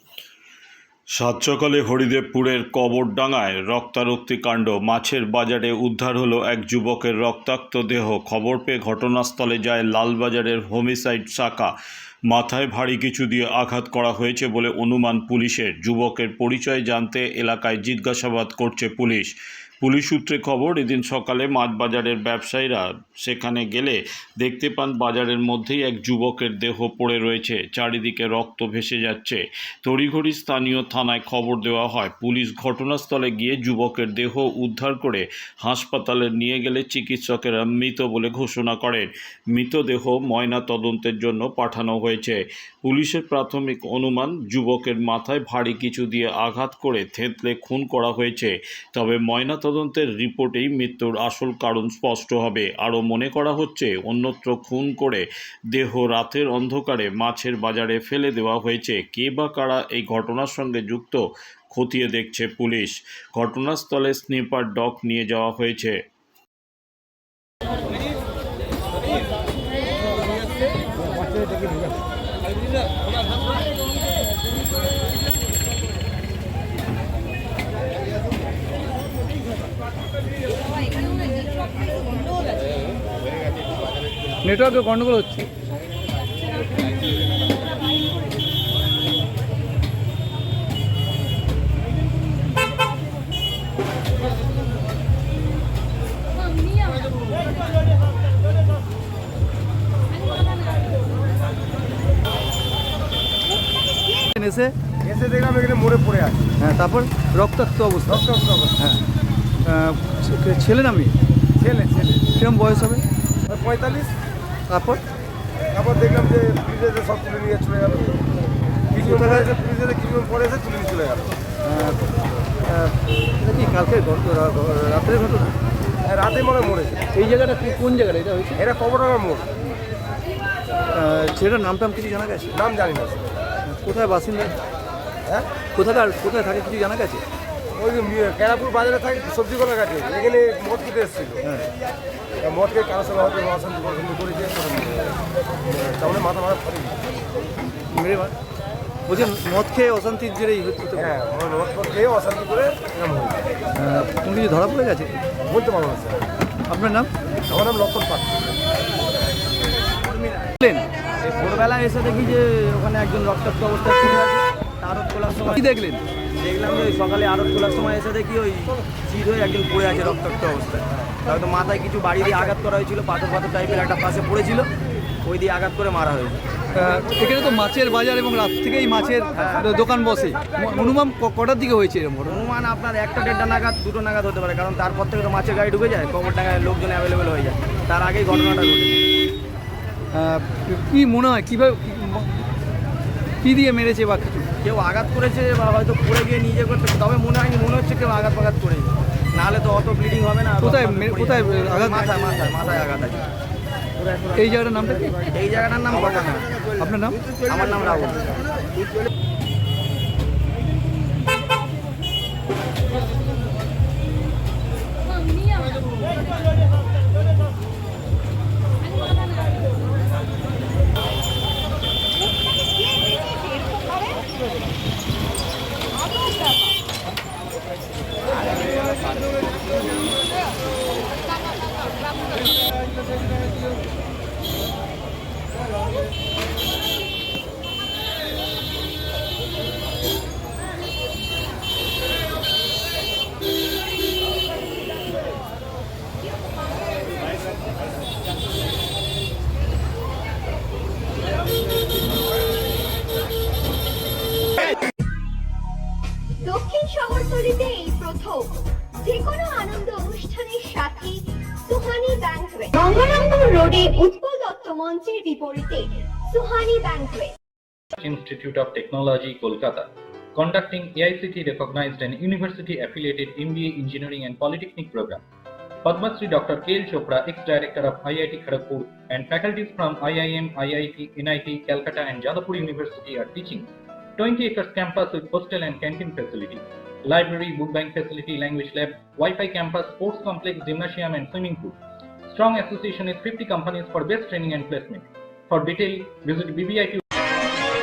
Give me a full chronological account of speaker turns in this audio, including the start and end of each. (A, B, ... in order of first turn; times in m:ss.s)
0:01.1-0:11.7 A
0:12.3-1:06.0 A
1:24.4-1:25.5 B
1:44.4-1:44.8 B
1:45.0-1:46.5 C
1:46.6-1:48.2 B
1:48.1-1:48.8 C
1:49.6-1:51.2 B
1:51.6-1:51.9 C
1:52.2-1:53.0 B
1:53.5-1:54.1 C
1:54.7-1:55.0 B
1:55.7-1:58.2 C
1:58.9-1:59.5 B
1:59.0-2:01.4 C
2:01.6-2:02.1 B
2:02.7-2:05.6 B
2:06.0-2:07.0 C
2:07.1-2:08.6 B
2:08.6-2:09.5 C
2:10.9-2:12.6 B
2:12.6-2:13.3 C
2:13.7-2:14.6 B
2:15.8-2:17.2 B
2:17.8-2:21.4 C
2:22.4-2:27.0 C
2:27.9-2:28.3 B
2:29.1-2:31.1 B
2:31.0-2:33.4 C
2:33.8-2:35.2 B
2:35.5-2:36.2 C
2:36.7-2:37.1 B
2:37.5-2:38.5 C
2:40.0-2:40.5 D
2:40.6-2:40.9 B
2:41.2-2:45.7 D
2:45.5-2:46.0 B
2:46.4-2:54.7 D
2:55.2-2:56.4 D
2:56.8-3:02.4 B
2:59.3-2:59.7 D
3:02.2-3:09.0 D
3:10.1-3:12.5 B
3:13.4-3:14.4 B
3:14.6-3:23.2 D
3:20.6-3:22.1 B
3:24.4-3:25.2 B
3:25.3-3:26.5 D
3:26.8-3:27.2 B
3:27.4-3:28.4 D
4:16.4-4:27.3 E
4:28.0-4:35.2 F
4:35.8-4:51.8 F
4:52.3-4:57.0 F